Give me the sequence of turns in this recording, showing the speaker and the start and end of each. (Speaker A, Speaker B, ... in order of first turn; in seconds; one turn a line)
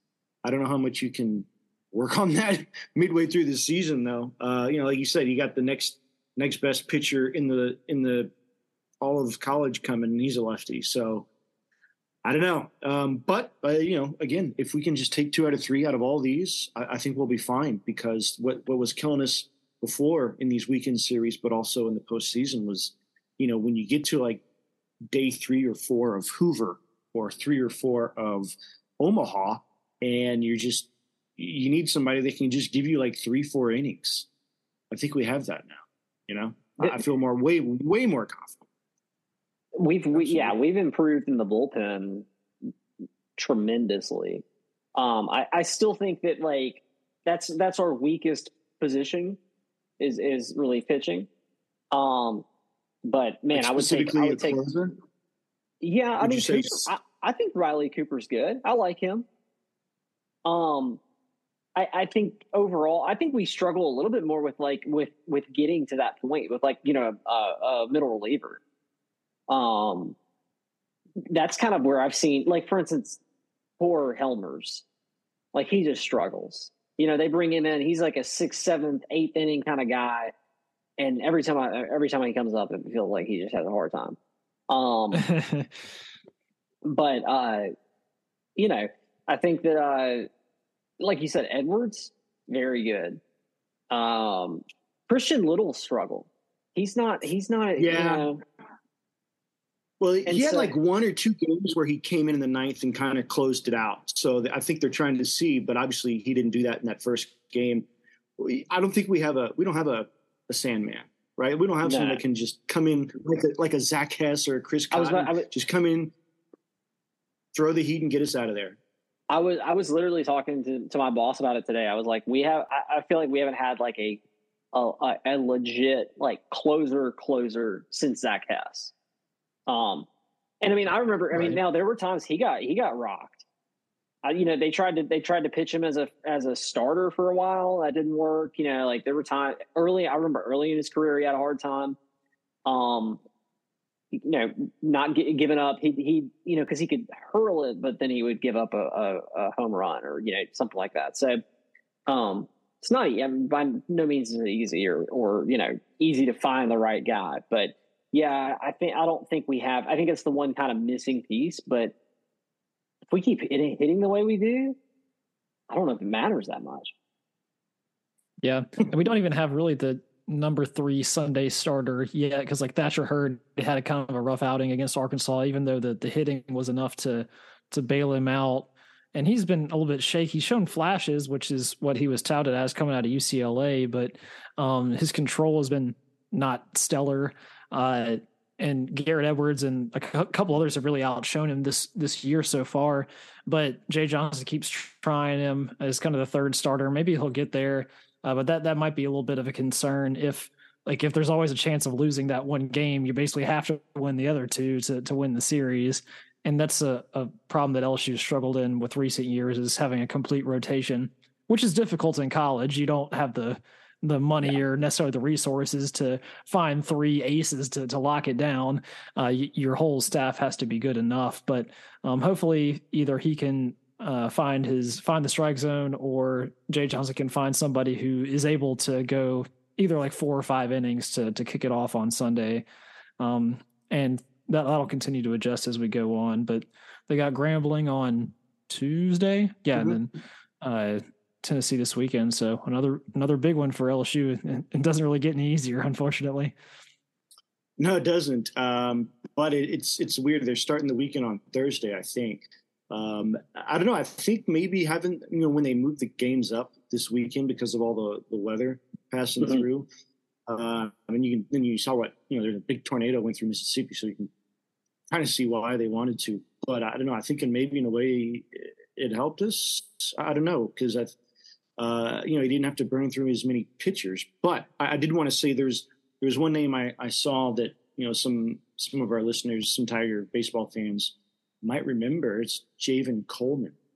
Speaker A: 0.4-8.3
Speaker A: 9.0-11.3
Speaker A: 12.2-24.4
Speaker A: 25.1-34.3
Speaker A: 34.9-38.6
Speaker B: 39.8-42.3
Speaker A: 40.1-40.5
Speaker B: 43.4-44.4
Speaker B: 45.0-49.4
Speaker B: 50.0-51.3
Speaker B: 51.9-52.4
Speaker B: 53.0-54.6
Speaker A: 53.5-55.0
Speaker B: 55.8-59.3
Speaker A: 56.2-56.9
Speaker B: 60.4-61.0
Speaker B: 61.8-68.6
Speaker B: 69.5-70.2
Speaker B: 71.3-73.2
Speaker B: 73.8-74.8
Speaker B: 75.5-80.3
Speaker B: 81.0-84.2
Speaker B: 84.7-85.2
Speaker C: 85.2-85.7
Speaker B: 86.8-87.7
Speaker B: 88.6-90.3
Speaker B: 91.0-93.2
Speaker B: 93.9-98.4
Speaker A: 97.8-98.3
Speaker A: 100.0-107.8
Speaker B: 100.2-100.7
Speaker A: 108.4-116.1
Speaker B: 111.8-112.2
Speaker B: 114.9-115.5
Speaker A: 117.5-118.8
Speaker B: 119.3-124.2
Speaker B: 124.7-128.9
Speaker B: 129.7-130.1
Speaker B: 130.6-133.4
Speaker A: 131.3-131.6
Speaker B: 134.2-142.0
Speaker B: 142.7-143.2
Speaker B: 144.1-151.4
Speaker B: 152.1-161.9
Speaker B: 163.1-164.8
Speaker B: 165.7-166.9
Speaker C: 168.4-232.6
Speaker C: 233.2-246.5
Speaker A: 247.8-259.9
Speaker A: 260.5-264.3
Speaker A: 265.1-271.1
Speaker A: 271.8-283.8